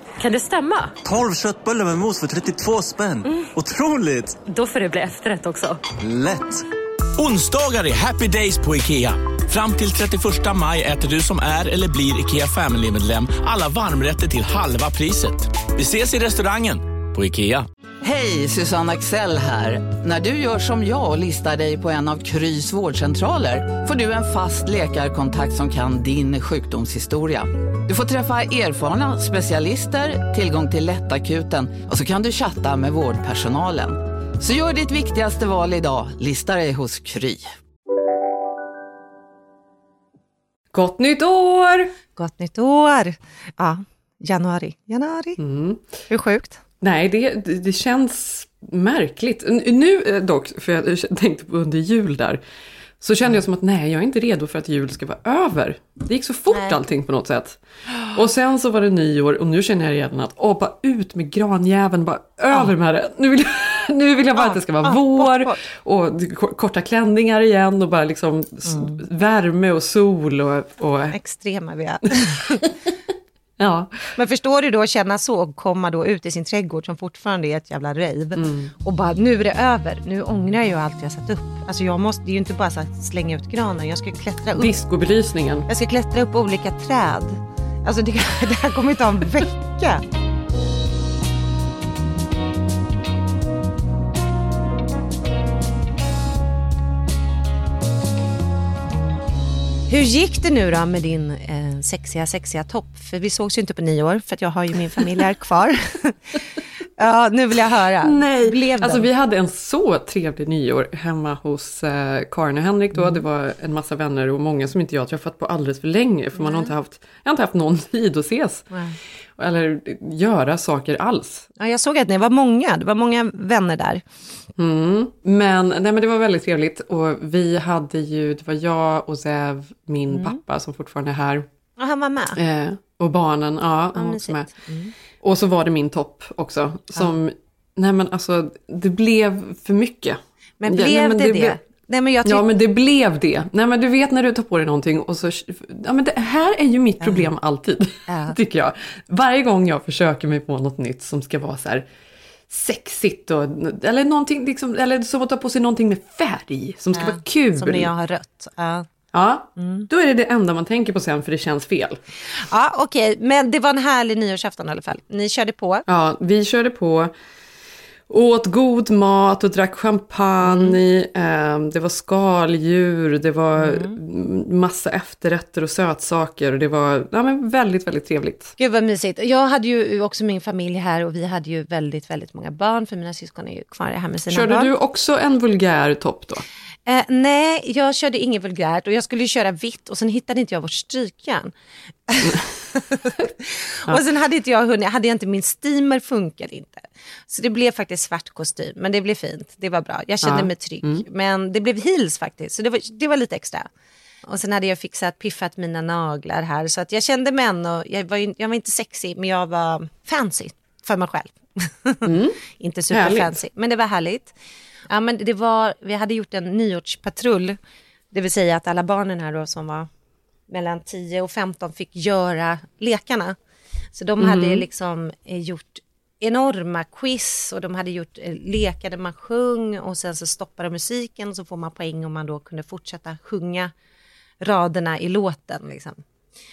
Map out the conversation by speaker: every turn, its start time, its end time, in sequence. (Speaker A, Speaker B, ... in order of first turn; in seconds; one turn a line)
Speaker A: 0.2-1.0
Speaker B: 1.0-4.4
Speaker A: 3.2-3.5
Speaker A: 4.4-5.8
Speaker B: 6.0-6.5
Speaker C: 7.2-17.6
Speaker D: 18.0-37.5
Speaker E: 40.7-41.9
Speaker F: 42.1-45.4
Speaker E: 45.4-45.8
Speaker F: 46.1-46.6
Speaker E: 46.8-52.4
Speaker E: 53.0-71.2
Speaker F: 56.5-56.8
Speaker F: 64.4-65.6
Speaker F: 68.7-69.0
Speaker F: 71.1-72.7
Speaker E: 73.6-74.1
Speaker F: 74.2-84.7
Speaker E: 78.4-78.7
Speaker E: 84.5-85.7
Speaker F: 85.7-90.0
Speaker F: 99.9-106.2
Speaker F: 107.0-109.0
Speaker E: 108.0-118.7
Speaker F: 112.9-113.2
Speaker F: 116.4-116.7
Speaker E: 119.4-121.5
Speaker F: 121.6-124.0
Speaker E: 124.6-131.4
Speaker F: 130.1-130.4
Speaker F: 131.8-132.4
Speaker E: 132.4-134.5
Speaker F: 133.9-134.9
Speaker E: 135.2-141.6
Speaker F: 140.6-142.4
Speaker E: 142.2-151.8
Speaker F: 147.0-147.3
Speaker F: 148.1-148.3
Speaker E: 152.5-157.9
Speaker F: 156.9-158.9
Speaker E: 159.1-162.0
Speaker F: 159.6-159.9
Speaker F: 162.4-165.8
Speaker E: 165.9-167.1
Speaker E: 168.1-178.5
Speaker F: 170.4-170.8
Speaker F: 173.6-173.9
Speaker F: 178.6-184.7
Speaker E: 184.3-186.4
Speaker F: 186.9-191.5
Speaker F: 192.1-203.7
Speaker E: 200.2-201.0
Speaker F: 204.3-214.3
Speaker E: 212.0-212.4
Speaker E: 212.9-213.4
Speaker F: 214.9-217.6
Speaker F: 218.1-219.9
Speaker F: 220.5-223.4
Speaker F: 223.9-233.7
Speaker E: 224.2-224.6
Speaker F: 234.4-236.0